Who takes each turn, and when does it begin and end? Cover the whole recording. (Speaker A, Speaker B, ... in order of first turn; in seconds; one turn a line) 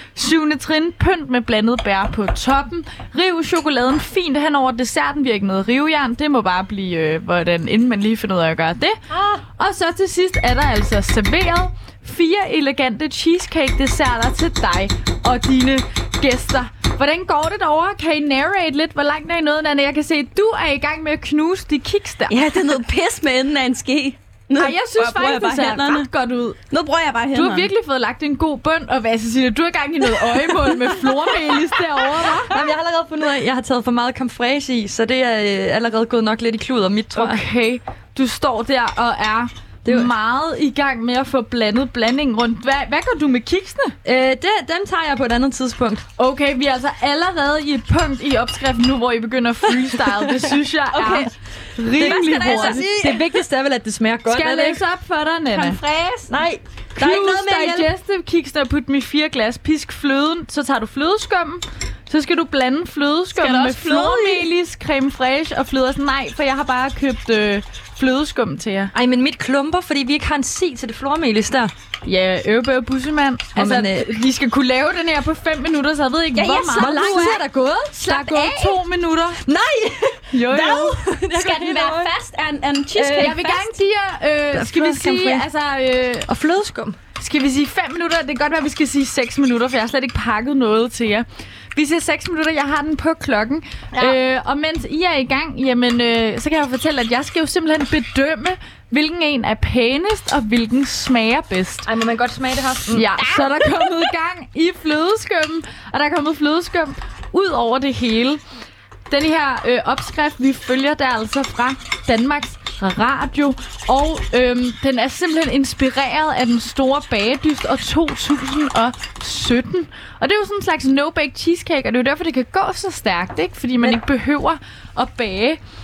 Speaker A: 0.1-22.4
Speaker B: 22.3-26.1
Speaker A: 24.5-26.6
Speaker B: 26.7-27.7
Speaker A: 27.3-32.6
Speaker B: 31.3-31.6
Speaker C: 32.5-37.4
Speaker A: 37.1-44.0
Speaker C: 39.8-40.1
Speaker C: 44.0-46.0
Speaker A: 46.2-53.4
Speaker C: 49.8-50.4
Speaker B: 50.9-51.3
Speaker B: 51.9-52.9
Speaker C: 52.0-54.8
Speaker A: 54.3-55.8
Speaker B: 55.5-56.3
Speaker C: 56.3-57.9
Speaker A: 57.0-68.9
Speaker B: 63.4-64.3
Speaker C: 63.4-64.4
Speaker C: 68.9-71.7
Speaker A: 72.0-77.4
Speaker C: 73.5-74.1
Speaker B: 76.3-77.4
Speaker C: 76.7-78.3
Speaker A: 78.0-79.4
Speaker B: 78.1-78.8
Speaker C: 79.4-82.1
Speaker A: 80.3-81.0
Speaker B: 80.8-83.8
Speaker C: 82.9-83.4
Speaker A: 83.2-86.3
Speaker C: 84.5-85.5
Speaker C: 86.3-87.0
Speaker A: 87.2-101.9
Speaker C: 101.8-103.2
Speaker A: 102.9-108.4
Speaker A: 109.1-125.6